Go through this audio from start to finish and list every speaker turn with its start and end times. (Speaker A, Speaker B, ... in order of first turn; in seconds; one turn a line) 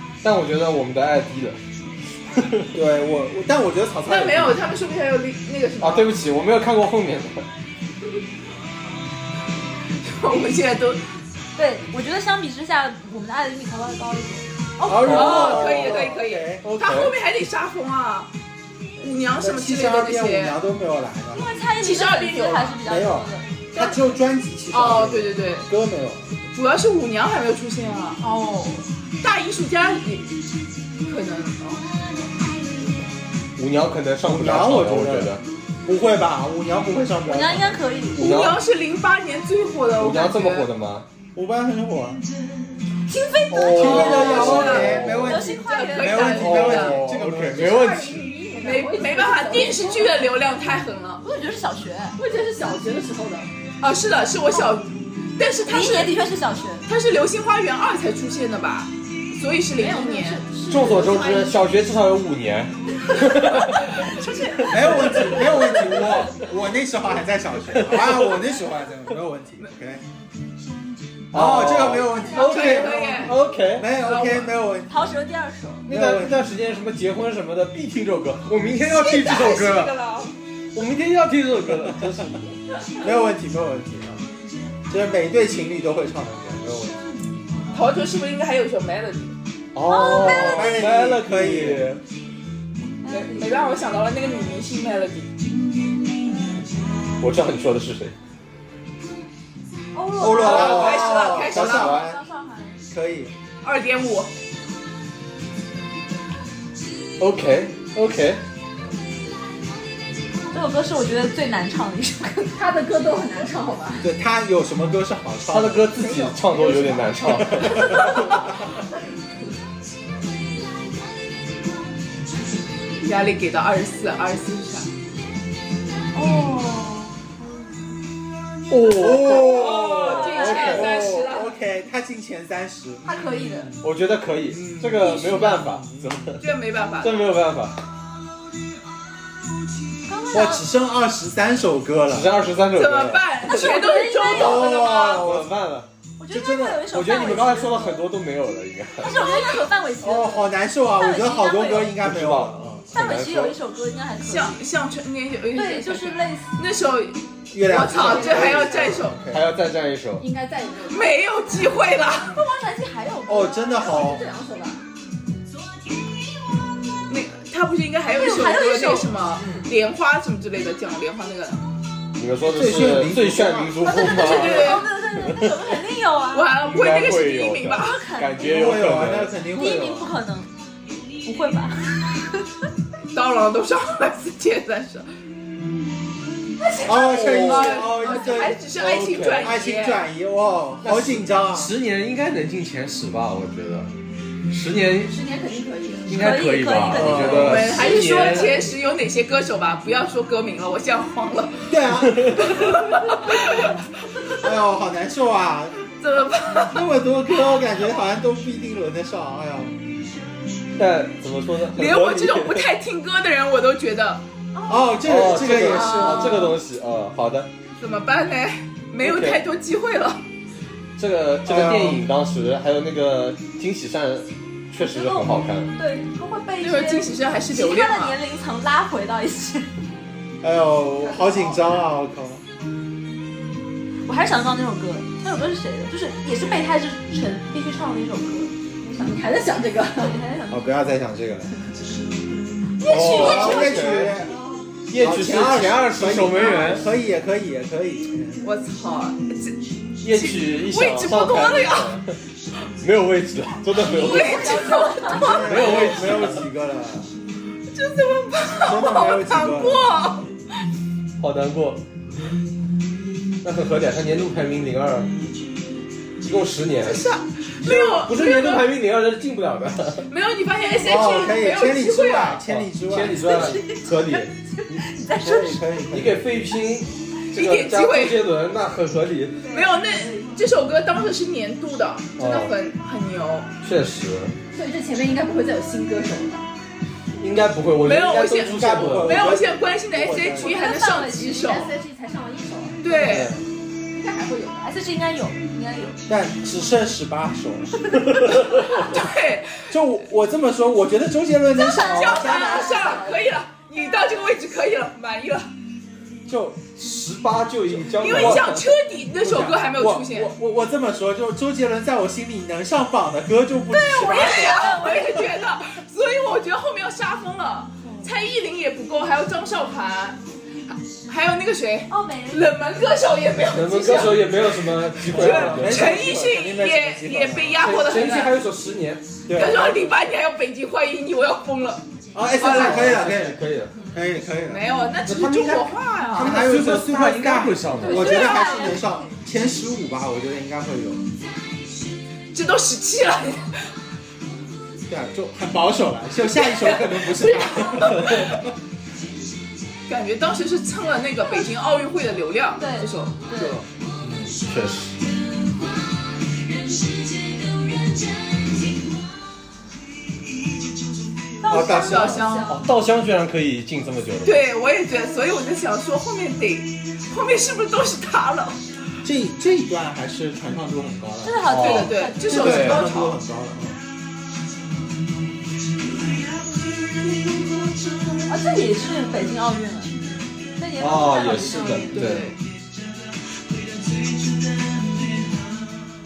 Speaker A: 0.2-1.6
Speaker A: 2.3-2.7
Speaker B: 2.7-4.6
Speaker C: 4.0-6.1
Speaker A: 5.8-7.5
Speaker C: 10.0-11.0
Speaker D: 11.6-15.6
Speaker B: 14.8-16.6
Speaker C: 15.0-18.3
Speaker A: 15.1-15.6
Speaker A: 16.6-17.1
Speaker C: 19.0-20.6
Speaker B: 19.4-21.5
Speaker D: 21.3-23.4
Speaker C: 21.8-22.8
Speaker B: 22.8-26.3
Speaker C: 23.7-24.0
Speaker C: 24.7-25.7
Speaker C: 26.5-28.2
Speaker D: 28.2-28.9
Speaker C: 29.2-30.3
Speaker C: 31.0-31.9
Speaker A: 33.5-35.4
Speaker B: 34.2-37.8
Speaker D: 37.2-38.4
Speaker A: 38.1-38.6
Speaker C: 38.1-40.7
Speaker A: 40.0-41.0
Speaker B: 41.3-42.2
Speaker D: 43.1-46.3
Speaker A: 43.5-45.4
Speaker B: 43.6-47.8
Speaker C: 43.7-47.1
Speaker A: 46.2-48.3
Speaker E: 47.2-50.3
Speaker C: 48.6-51.2
Speaker D: 51.2-52.2
Speaker E: 52.2-53.5
Speaker C: 53.8-56.2
Speaker D: 55.6-56.9
Speaker C: 56.9-60.4
Speaker E: 59.8-61.5
Speaker A: 60.7-66.3
Speaker D: 64.0-65.3
Speaker B: 64.7-70.0
Speaker A: 67.7-68.3
Speaker A: 71.3-73.9
Speaker B: 71.3-75.1
Speaker D: 72.0-73.1
Speaker C: 72.3-73.3
Speaker C: 74.0-74.5
Speaker D: 74.9-75.9
Speaker B: 75.9-76.3
Speaker A: 75.9-79.9
Speaker C: 78.9-80.3
Speaker A: 80.7-82.4
Speaker B: 83.0-84.2
Speaker B: 84.9-87.0
Speaker C: 87.7-89.3
Speaker A: 89.7-92.0
Speaker D: 89.8-90.8
Speaker B: 90.2-91.9
Speaker D: 93.0-93.8
Speaker C: 93.1-95.3
Speaker A: 97.2-98.1
Speaker D: 99.9-102.8
Speaker B: 100.2-102.2
Speaker C: 100.3-102.0
Speaker A: 100.3-102.1
Speaker B: 102.9-103.3
Speaker C: 103.6-104.3
Speaker A: 107.2-108.4
Speaker D: 110.5-112.6
Speaker E: 112.5-114.1
Speaker B: 114.0-115.9
Speaker A: 115.5-118.0
Speaker E: 115.9-118.3
Speaker B: 117.5-118.4
Speaker D: 117.9-118.3
Speaker C: 123.0-124.9
Speaker D: 126.1-127.2
Speaker A: 128.7-130.9
Speaker B: 128.9-133.1
Speaker C: 129.4-131.5
Speaker D: 129.8-130.8
Speaker D: 133.0-133.7
Speaker A: 133.8-136.4
Speaker B: 134.5-136.3
Speaker D: 135.2-135.6
Speaker C: 136.4-137.2
Speaker A: 137.0-137.8
Speaker D: 140.1-140.6
Speaker B: 140.3-142.3
Speaker A: 142.1-143.5
Speaker C: 142.8-145.2
Speaker D: 143.5-145.2
Speaker B: 144.3-145.5
Speaker A: 145.1-145.9
Speaker D: 146.2-148.1
Speaker B: 146.3-146.9
Speaker A: 146.9-149.2
Speaker D: 149.0-152.0
Speaker C: 149.2-149.7
Speaker B: 150.0-152.8
Speaker A: 152.0-153.6
Speaker D: 152.9-154.6
Speaker C: 154.3-159.2
Speaker D: 155.5-156.5
Speaker B: 157.5-159.5
Speaker E: 157.7-159.0
Speaker A: 159.3-160.2
Speaker E: 160.2-161.7
Speaker C: 160.9-162.4
Speaker D: 162.3-164.2
Speaker B: 163.3-164.2
Speaker E: 163.7-164.8
Speaker C: 167.1-171.6
Speaker D: 168.1-169.1
Speaker A: 169.4-169.6
Speaker A: 172.2-175.5
Speaker B: 172.4-173.9
Speaker D: 173.8-176.6
Speaker C: 173.9-174.9
Speaker C: 176.3-178.0
Speaker A: 176.6-179.4
Speaker D: 177.8-178.7
Speaker B: 178.4-180.1
Speaker D: 179.5-180.5
Speaker D: 181.2-182.4
Speaker C: 183.1-185.1
Speaker D: 186.6-187.7
Speaker B: 186.8-188.6
Speaker A: 187.0-187.8
Speaker C: 187.4-190.1
Speaker A: 188.8-189.5
Speaker B: 189.4-191.7
Speaker A: 190.8-193.9
Speaker A: 194.5-195.2
Speaker E: 195.1-196.1
Speaker A: 196.1-198.5
Speaker D: 196.1-197.7
Speaker B: 196.9-197.7
Speaker C: 197.2-201.8
Speaker B: 201.7-202.8
Speaker A: 202.1-202.6
Speaker C: 202.3-203.8
Speaker B: 204.4-205.8
Speaker C: 206.0-206.8
Speaker B: 206.7-209.8
Speaker A: 210.8-212.7
Speaker C: 211.7-214.2
Speaker D: 214.5-215.1
Speaker B: 214.7-216.3
Speaker A: 215.0-217.5
Speaker E: 215.7-216.5
Speaker C: 217.8-220.2
Speaker A: 219.0-219.4
Speaker A: 221.0-225.7
Speaker B: 221.4-222.0
Speaker D: 224.8-229.7
Speaker C: 226.6-228.2
Speaker B: 230.4-232.4
Speaker E: 231.0-231.8
Speaker D: 234.0-238.5
Speaker E: 238.8-240.2
Speaker D: 239.9-240.7
Speaker B: 240.5-241.5
Speaker C: 242.8-243.8
Speaker A: 242.9-244.2
Speaker D: 243.0-243.8
Speaker B: 243.1-244.4
Speaker A: 244.9-246.9
Speaker B: 245.0-248.4
Speaker C: 248.4-251.9
Speaker A: 250.0-252.2
Speaker A: 252.8-254.6
Speaker D: 253.8-255.4
Speaker C: 253.8-255.8
Speaker B: 255.1-257.1
Speaker A: 255.2-256.4
Speaker C: 257.7-260.3
Speaker B: 258.6-259.9
Speaker A: 261.2-261.8
Speaker A: 263.4-265.1
Speaker A: 266.2-267.0
Speaker C: 266.8-268.7
Speaker A: 267.6-270.1
Speaker C: 270.1-272.4
Speaker B: 270.8-273.6
Speaker A: 272.5-274.8
Speaker D: 273.1-275.6
Speaker B: 275.2-276.3
Speaker A: 275.9-279.4
Speaker C: 277.3-278.2
Speaker D: 279.5-279.8
Speaker C: 279.5-283.5
Speaker A: 282.2-282.5
Speaker A: 283.6-284.3
Speaker E: 284.5-286.4
Speaker A: 287.1-289.3
Speaker C: 287.8-291.7
Speaker B: 288.3-290.6
Speaker D: 290.3-291.7
Speaker E: 291.3-293.3
Speaker C: 292.8-293.3
Speaker B: 293.0-293.4
Speaker E: 293.9-294.7
Speaker D: 294.6-296.0
Speaker B: 296.1-298.2
Speaker D: 297.9-299.0
Speaker C: 298.6-299.7
Speaker B: 299.7-303.0
Speaker D: 301.6-303.0
Speaker C: 301.6-305.5
Speaker E: 302.2-303.3
Speaker B: 306.2-306.8
Speaker A: 306.8-308.6
Speaker B: 307.7-308.6
Speaker C: 308.0-310.3
Speaker B: 309.2-314.9
Speaker C: 313.7-320.2
Speaker D: 313.9-315.5
Speaker D: 317.8-318.1
Speaker C: 321.0-324.3
Speaker D: 321.9-322.6
Speaker A: 323.4-326.1
Speaker C: 325.0-328.3
Speaker B: 325.1-328.0
Speaker A: 327.6-329.1
Speaker B: 329.3-329.7
Speaker C: 329.3-331.8
Speaker B: 332.1-333.4
Speaker A: 332.4-333.7
Speaker C: 332.4-333.0
Speaker B: 333.9-341.0
Speaker C: 334.4-336.4
Speaker A: 336.1-338.3
Speaker D: 337.8-338.9
Speaker C: 342.3-343.5
Speaker B: 344.9-348.5
Speaker C: 346.3-348.3
Speaker C: 349.9-353.2
Speaker D: 352.6-353.6
Speaker A: 353.3-355.0
Speaker D: 361.4-362.6
Speaker B: 361.5-362.2
Speaker C: 361.6-362.6
Speaker A: 362.5-364.4
Speaker C: 364.2-368.6
Speaker B: 369.0-373.8
Speaker D: 371.2-372.6
Speaker A: 371.4-372.9
Speaker C: 371.5-373.2
Speaker D: 378.2-380.0
Speaker D: 380.6-382.2
Speaker A: 380.8-382.3
Speaker C: 381.9-382.4